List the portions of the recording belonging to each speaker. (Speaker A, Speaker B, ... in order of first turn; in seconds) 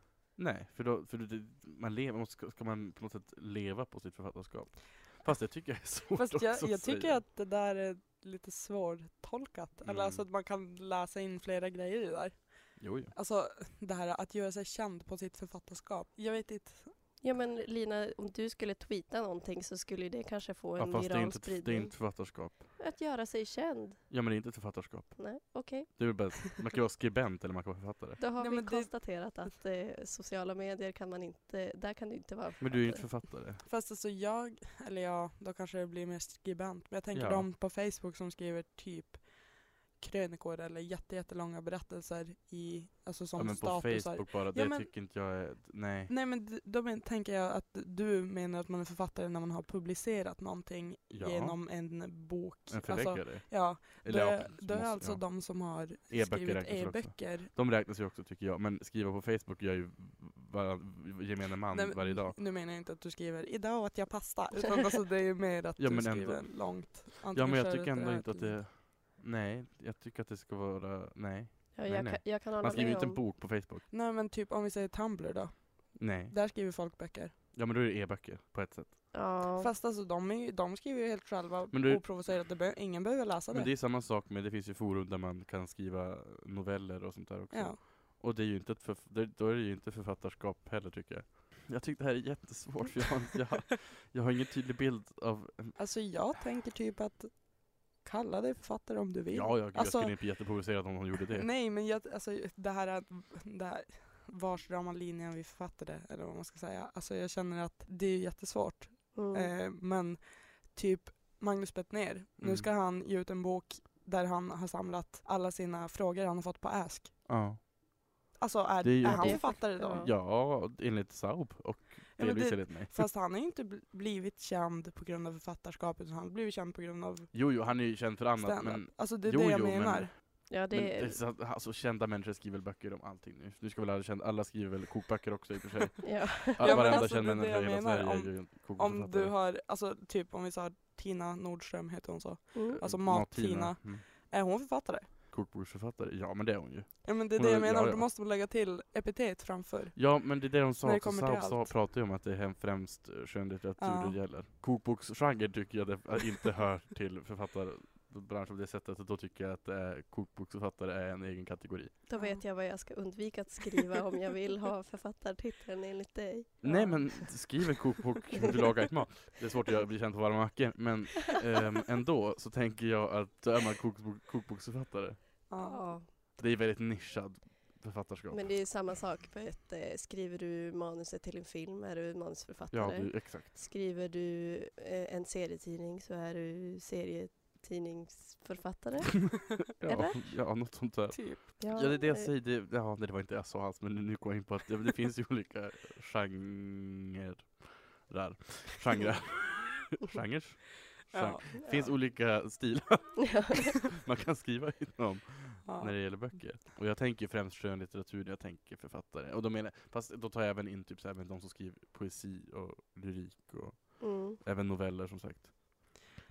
Speaker A: 0.3-7.2, 9.8-10.2, 12.8-13.1, 20.8-22.6, 24.1-28.2, 32.6-33.6, 37.1-37.5, 43.3-46.1, 51.1-51.6, 52.7-62.4, 65.8-73.8, 76.0-76.3, 77.5-79.2, 81.7-82.4, 83.5-95.8, 99.3-101.5, 112.4-112.7, 117.2-117.7, 118.8-123.1, 127.3-139.3, 142.8-144.1, 145.3-148.1, 149.9-162.0, 166.6-175.5, 176.3-178.7, 182.7-183.5, 189.8-215.5
Speaker B: 6.2-16.9, 28.4-28.9, 33.6-45.4, 46.1-57.5, 61.7-68.6, 73.9-77.3, 79.5-83.7, 87.5-87.8, 95.8-117.3, 118.4-120.0, 122.2-127.8, 128.4-130.1, 136.6-145.1, 147.0-151.8, 153.8-154.2, 162.2-162.4, 166.6-167.1, 175.5-175.9, 191.1-191.4, 201.1-201.9, 205.6-206.5
Speaker C: 17.2-24.0, 25.2-25.9, 28.2-33.2, 71.7-73.2, 79.1-79.7, 109.1-109.5, 119.0-120.1, 130.5-131.2, 136.0-137.1, 142.5-142.8, 162.1-167.5, 175.6-176.1, 178.3-190.8, 191.6-192.3, 203.2-203.8, 214.0-214.4